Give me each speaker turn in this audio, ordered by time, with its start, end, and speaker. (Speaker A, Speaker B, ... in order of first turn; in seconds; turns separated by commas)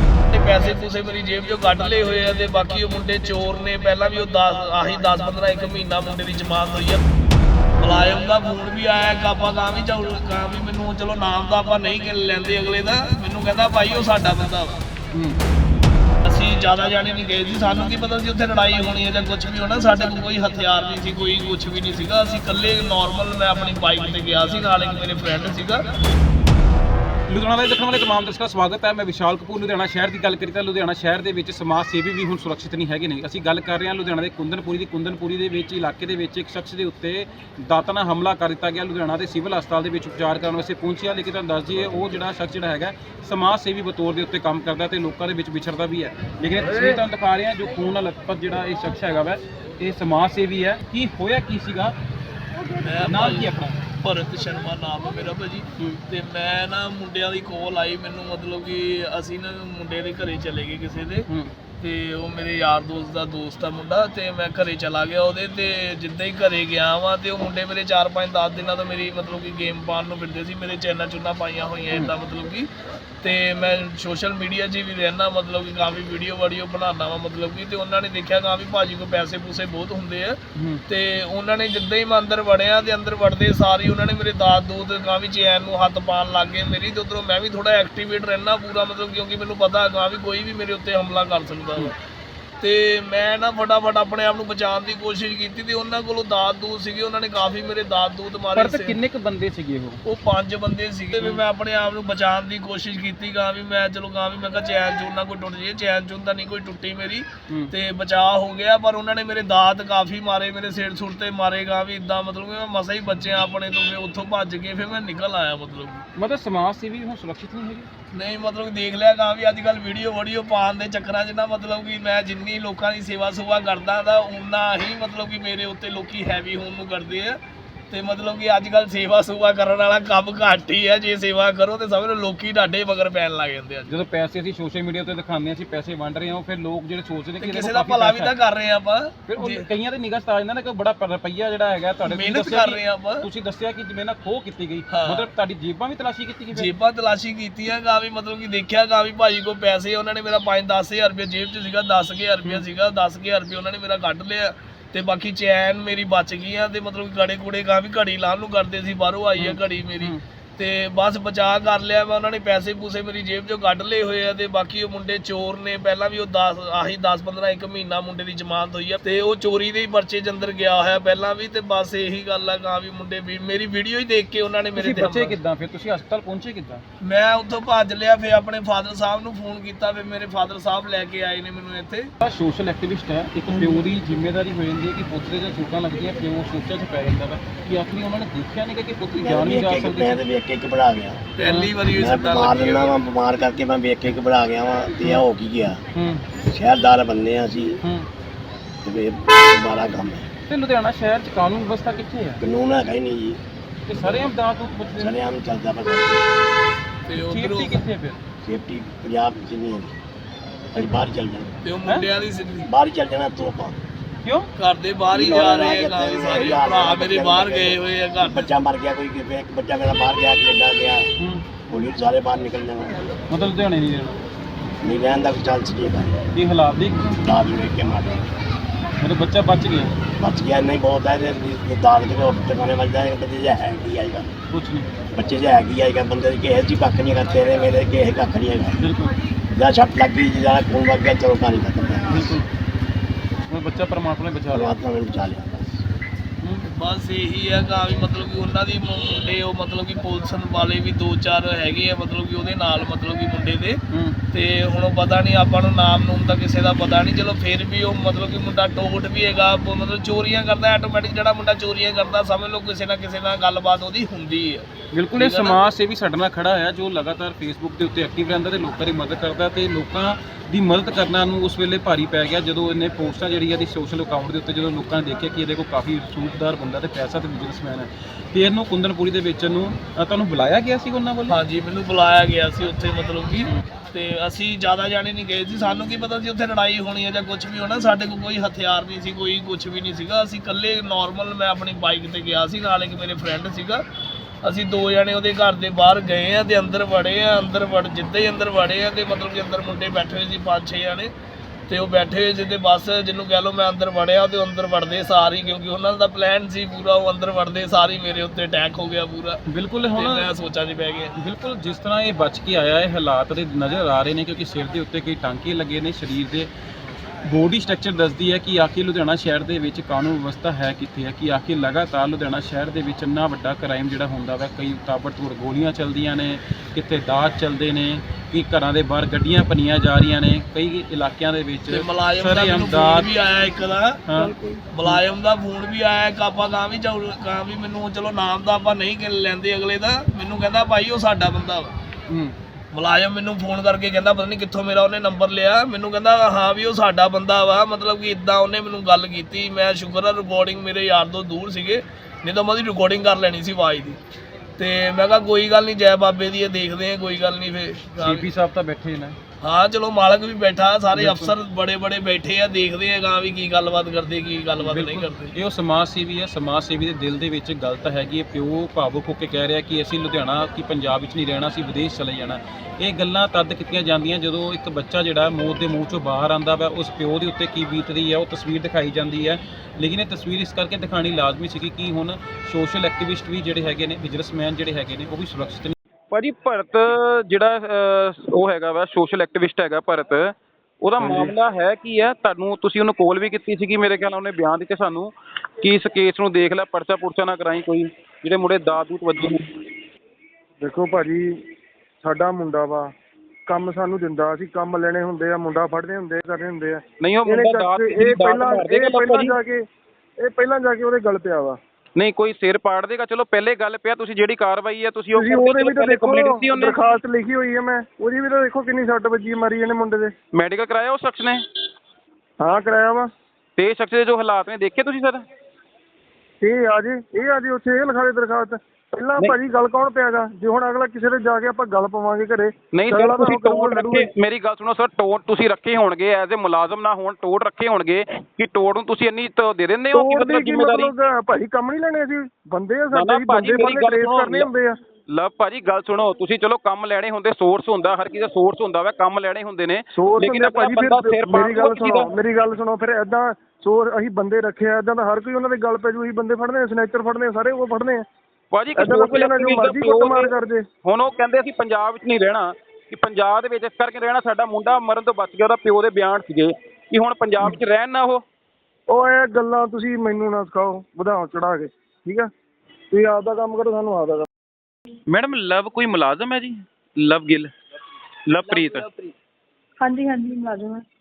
Speaker A: 0.3-7.0, Speaker A: 7.8-14.8, Speaker B: 15.1-15.4, Speaker A: 16.2-25.9, Speaker B: 27.3-51.9, Speaker A: 52.8-61.3, Speaker B: 53.0-53.8, Speaker B: 61.3-61.5, Speaker A: 61.8-72.7, Speaker A: 73.2-91.9, Speaker B: 80.5-80.8, Speaker A: 92.6-99.0, Speaker B: 98.5-100.0, Speaker A: 100.0-116.0, Speaker B: 116.2-117.9, Speaker A: 118.1-127.4, Speaker A: 127.9-133.9, Speaker B: 133.9-138.3, Speaker A: 137.4-139.6, Speaker B: 139.3-146.7, Speaker A: 142.1-143.2, Speaker A: 144.9-145.2, Speaker A: 146.5-175.3, Speaker B: 159.4-160.2, Speaker B: 174.8-176.8, Speaker A: 177.0-182.1, Speaker B: 182.2-190.2, Speaker C: 183.5-183.8, Speaker D: 189.2-191.3, Speaker A: 191.4-192.9, Speaker B: 191.4-191.7, Speaker D: 191.9-195.8, Speaker B: 195.9-196.2, Speaker D: 196.3-197.8, Speaker B: 197.8-198.1, Speaker D: 198.8-200.3, Speaker B: 200.5-202.4, Speaker D: 202.4-203.4, Speaker B: 203.9-205.2, Speaker D: 205.0-206.3, Speaker A: 207.0-207.8, Speaker B: 207.3-208.2, Speaker D: 208.4-209.9, Speaker D: 210.7-211.6, Speaker B: 210.7-211.0, Speaker A: 211.6-212.7, Speaker D: 212.6-213.8, Speaker B: 214.2-214.5, Speaker A: 214.6-218.5, Speaker D: 215.1-221.1, Speaker B: 221.2-221.4, Speaker D: 221.7-223.1, Speaker B: 223.3-224.2, Speaker D: 224.8-226.2, Speaker B: 226.3-227.2, Speaker D: 227.2-228.3, Speaker B: 229.0-229.9, Speaker D: 230.2-234.3, Speaker B: 234.5-234.9, Speaker D: 235.1-238.8, Speaker B: 238.8-239.1, Speaker D: 239.5-242.4, Speaker B: 242.1-242.5, Speaker B: 243.5-244.8, Speaker D: 244.5-245.8, Speaker B: 246.4-246.6, Speaker A: 246.7-253.8, Speaker B: 253.9-254.2, Speaker A: 254.3-264.6, Speaker B: 264.9-281.4, Speaker A: 265.2-265.6, Speaker A: 281.3-293.8, Speaker A: 294.4-301.1, Speaker A: 301.7-309.4, Speaker B: 309.5-310.3, Speaker A: 309.9-311.1, Speaker B: 311.2-316.5, Speaker B: 317.2-333.1, Speaker A: 331.7-334.0, Speaker B: 334.1-334.3, Speaker C: 334.1-334.7, Speaker A: 334.7-341.7, Speaker B: 342.1-342.3, Speaker A: 342.7-354.0, Speaker A: 354.6-358.2, Speaker B: 358.0-359.2, Speaker A: 359.4-365.3, Speaker B: 360.9-361.3, Speaker B: 364.6-399.5, Speaker E: 400.6-401.3, Speaker E: 402.0-402.9, Speaker E: 403.5-409.6, Speaker B: 407.0-409.3, Speaker E: 410.2-411.6, Speaker B: 411.9-416.9, Speaker E: 415.1-420.1, Speaker B: 420.3-421.4, Speaker E: 422.4-423.1, Speaker B: 423.6-425.2, Speaker E: 426.4-434.1, Speaker B: 432.7-440.9, Speaker E: 439.9-444.8, Speaker B: 442.9-444.5, Speaker B: 445.1-452.1, Speaker E: 449.9-458.0, Speaker B: 458.5-460.3, Speaker E: 458.8-460.6, Speaker B: 460.8-468.2, Speaker E: 468.9-472.3, Speaker E: 472.9-474.3, Speaker B: 475.1-477.5, Speaker B: 478.3-478.9, Speaker C: 479.8-480.8